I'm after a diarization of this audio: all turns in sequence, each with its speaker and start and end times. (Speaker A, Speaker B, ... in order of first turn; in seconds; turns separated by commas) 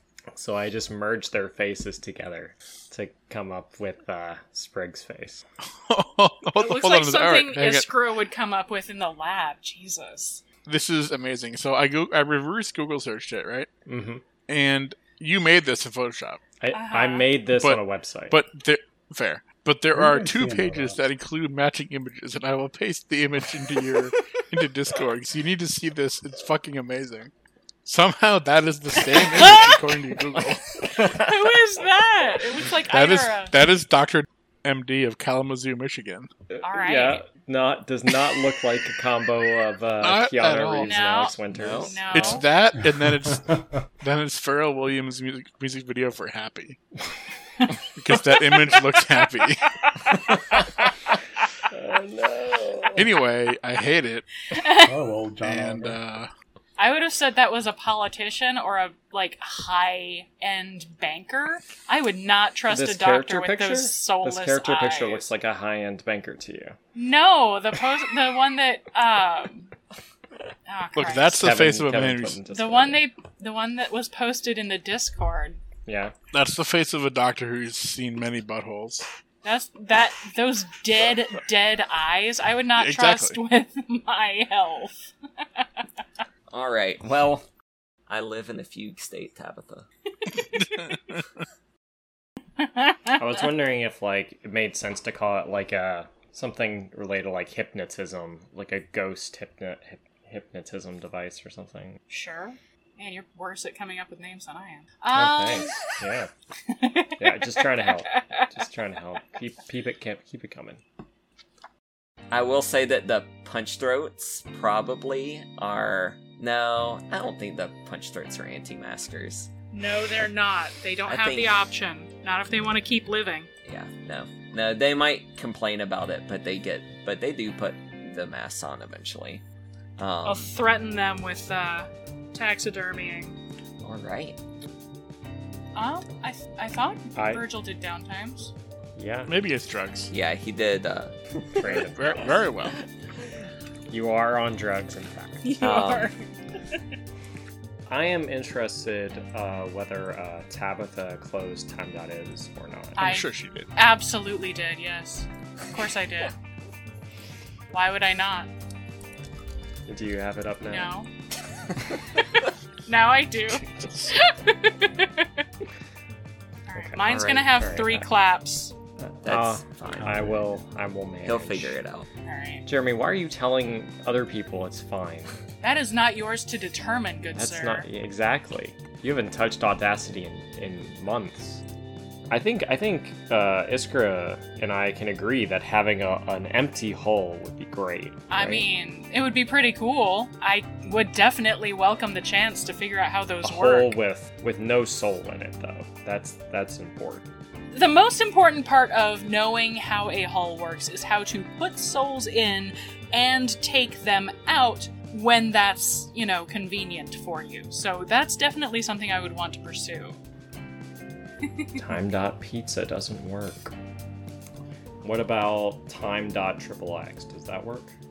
Speaker A: 0.3-5.4, Speaker B: 5.7-7.9, Speaker C: 6.6-10.4, Speaker B: 10.7-13.7, Speaker A: 13.9-14.3, Speaker B: 14.5-16.4, Speaker A: 16.6-18.4, Speaker C: 16.7-17.3, Speaker B: 17.5-27.3, Speaker D: 19.9-21.0, Speaker B: 27.9-31.1, Speaker C: 29.0-30.2, Speaker C: 31.0-33.6, Speaker B: 32.9-36.3, Speaker A: 36.5-42.5, Speaker C: 36.6-37.3, Speaker B: 40.0-41.1, Speaker C: 40.8-42.5, Speaker E: 41.5-42.0, Speaker B: 42.1-46.8, Speaker B: 48.0-49.7, Speaker C: 48.1-50.7, Speaker A: 51.7-53.1, Speaker B: 53.0-54.3, Speaker C: 54.5-55.0, Speaker D: 54.9-56.0, Speaker B: 55.4-56.3, Speaker C: 56.8-65.3, Speaker A: 62.7-66.8, Speaker C: 67.0-69.7, Speaker C: 70.7-71.4, Speaker B: 71.0-72.4, Speaker A: 71.3-73.0, Speaker C: 72.5-75.6, Speaker A: 75.9-76.2, Speaker B: 76.3-79.1, Speaker C: 79.4-85.9, Speaker B: 82.8-83.4, Speaker E: 86.5-87.5, Speaker E: 88.1-89.9, Speaker B: 90.3-91.2, Speaker C: 92.6-93.2, Speaker A: 93.2-102.0, Speaker C: 102.1-105.9, Speaker A: 105.1-106.3, Speaker C: 106.7-108.5, Speaker A: 107.2-110.8, Speaker E: 112.3-119.5, Speaker C: 119.7-123.5, Speaker E: 121.1-121.5, Speaker E: 123.7-129.4, Speaker E: 130.0-130.5, Speaker C: 130.2-133.4, Speaker E: 133.8-134.4, Speaker C: 135.8-138.5, Speaker A: 137.2-137.4, Speaker A: 139.0-139.4, Speaker B: 139.3-140.1, Speaker E: 140.1-141.9, Speaker A: 141.6-142.5, Speaker B: 141.7-142.8, Speaker A: 143.9-146.1, Speaker C: 145.4-146.3, Speaker E: 145.6-146.1, Speaker A: 147.9-153.0, Speaker C: 153.0-156.3, Speaker B: 153.0-153.7, Speaker C: 157.7-158.5, Speaker A: 159.9-160.9, Speaker C: 160.7-161.1, Speaker C: 162.9-165.4, Speaker B: 163.5-164.2, Speaker C: 166.7-168.7, Speaker A: 166.8-168.1, Speaker E: 167.1-167.6, Speaker A: 169.0-171.8, Speaker E: 169.2-170.5, Speaker E: 171.2-172.1, Speaker C: 172.3-172.7, Speaker A: 172.7-175.4, Speaker C: 175.6-177.9, Speaker A: 177.3-181.6, Speaker A: 182.3-188.7, Speaker C: 188.3-194.0, Speaker A: 193.4-197.3, Speaker C: 197.7-210.2, Speaker C: 211.6-211.8, Speaker A: 211.8-213.8, Speaker A: 215.0-218.0